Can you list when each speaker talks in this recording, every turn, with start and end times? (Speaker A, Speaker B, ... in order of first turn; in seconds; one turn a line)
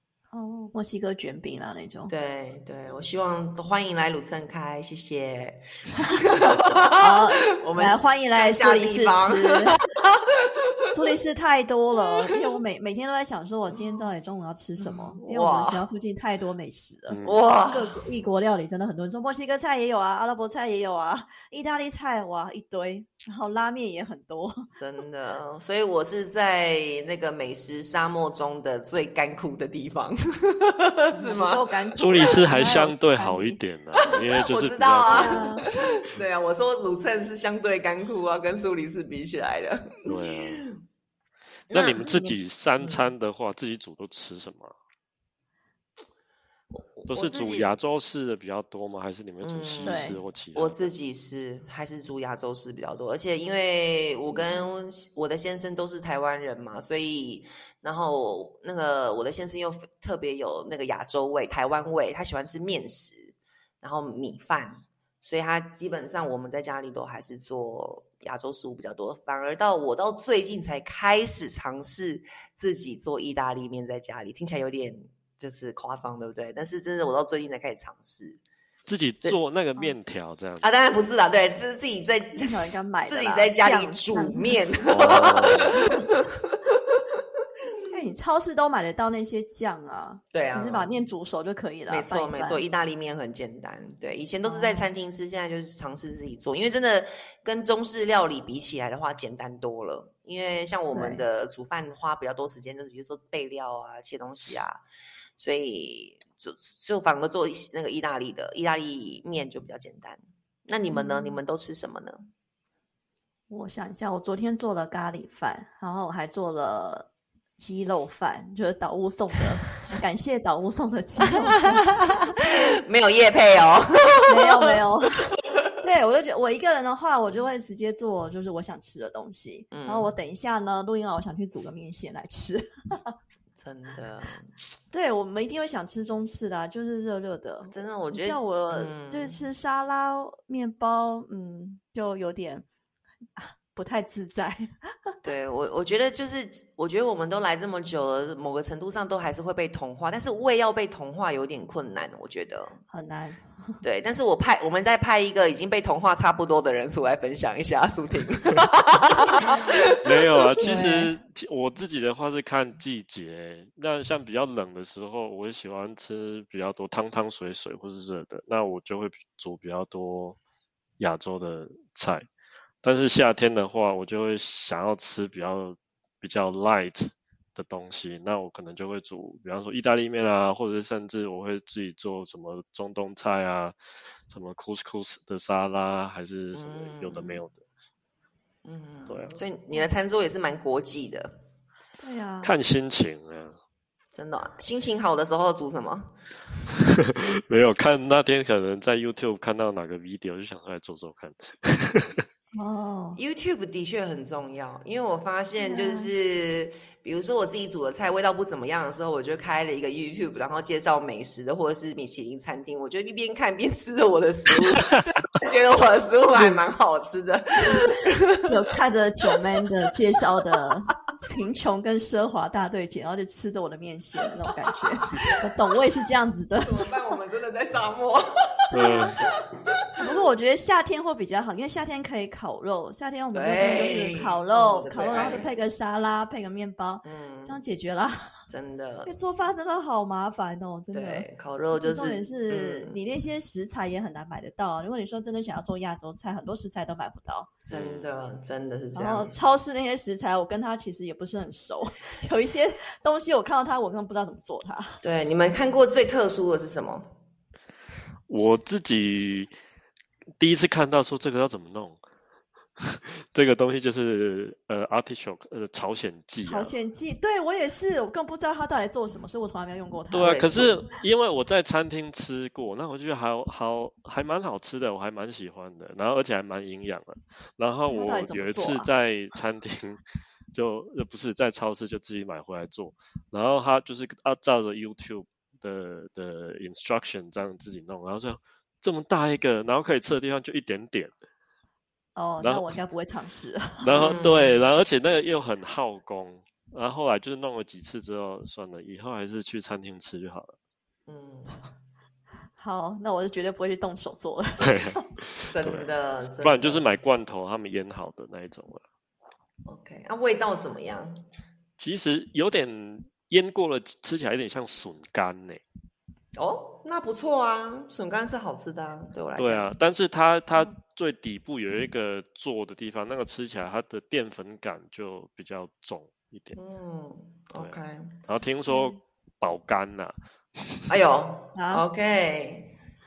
Speaker A: 0.3-2.1
Speaker B: 2.1-10.5
Speaker A: 7.0-9.8
Speaker A: 10.9-17.2
Speaker B: 14.8-15.8
Speaker C: 17.1-17.4
Speaker B: 17.2-18.0
Speaker A: 17.7-24.7
Speaker B: 24.8-32.5
Speaker A: 31.1-33.6
Speaker C: 32.0-35.8
Speaker B: 34.0-40.8
Speaker A: 35.1-35.7
Speaker C: 40.1-40.6
Speaker B: 41.7-43.1
Speaker C: 41.7-44.7
Speaker B: 46.7-47.7
Speaker C: 47.1-50.9
Speaker B: 49.4-78.4
Speaker A: 49.9-50.2
Speaker A: 54.4-54.7
Speaker C: 78.9-80.7
Speaker B: 80.6-87.0
Speaker A: 82.4-84.5
Speaker C: 84.9-85.8
Speaker A: 85.8-86.0
Speaker A: 87.9-92.6
Speaker B: 90.3-90.9
Speaker B: 91.9-104.8
Speaker A: 94.5-94.9
Speaker A: 100.9-101.2
Speaker B: 105.4-112.2
Speaker A: 110.9-111.4
Speaker A: 113.5-121.9
Speaker B: 121.5-124.8
Speaker A: 124.3-133.2
Speaker B: 129.7-130.1
Speaker B: 133.6-134.5
Speaker A: 134.9-142.7
Speaker B: 137.7-139.4
Speaker A: 143.4-145.1
Speaker B: 145.2-152.8
Speaker A: 152.9-153.7
Speaker B: 153.8-160.4
Speaker C: 160.0-170.4
Speaker A: 160.6-161.1
Speaker C: 171.0-172.3
Speaker C: 172.8-187.6
Speaker B: 186.5-187.4
Speaker B: 188.7-191.4
Speaker C: 189.1-189.4
Speaker A: 192.0-192.5
Speaker C: 192.4-193.6
Speaker B: 194.1-196.2
Speaker C: 196.8-202.2
Speaker A: 202.5-203.2
Speaker B: 203.2-218.4
Speaker A: 205.6-206.1
Speaker A: 217.7-226.9
Speaker B: 225.1-225.4
Speaker B: 226.6-229.8
Speaker A: 228.7-229.2
Speaker C: 228.8-229.2
Speaker A: 230.0-238.3
Speaker B: 233.3-235.5
Speaker B: 237.1-237.6
Speaker B: 238.5-239.1
Speaker A: 239.1-247.6
Speaker B: 240.9-243.0
Speaker B: 247.7-249.3
Speaker C: 247.7-248.1
Speaker A: 248.9-255.0
Speaker B: 255.0-257.1
Speaker C: 258.3-259.6
Speaker C: 260.4-262.0
Speaker C: 262.8-266.7
Speaker A: 266.4-270.6
Speaker C: 270.1-280.0
Speaker B: 270.2-270.8
Speaker A: 277.9-278.9
Speaker C: 280.5-291.1
Speaker A: 292.2-293.9
Speaker C: 292.4-292.7
Speaker C: 293.8-300.6
Speaker B: 293.9-294.6
Speaker B: 301.1-301.6
Speaker A: 302.6-305.0
Speaker C: 304.6-305.9
Speaker B: 305.4-306.9
Speaker C: 306.4-308.8
Speaker B: 309.7-311.2
Speaker C: 311.8-315.6
Speaker B: 316.4-319.7
Speaker C: 319.4-326.6
Speaker B: 326.6-328.2
Speaker C: 327.6-330.9
Speaker A: 328.7-329.0
Speaker B: 330.9-332.8
Speaker A: 331.6-331.8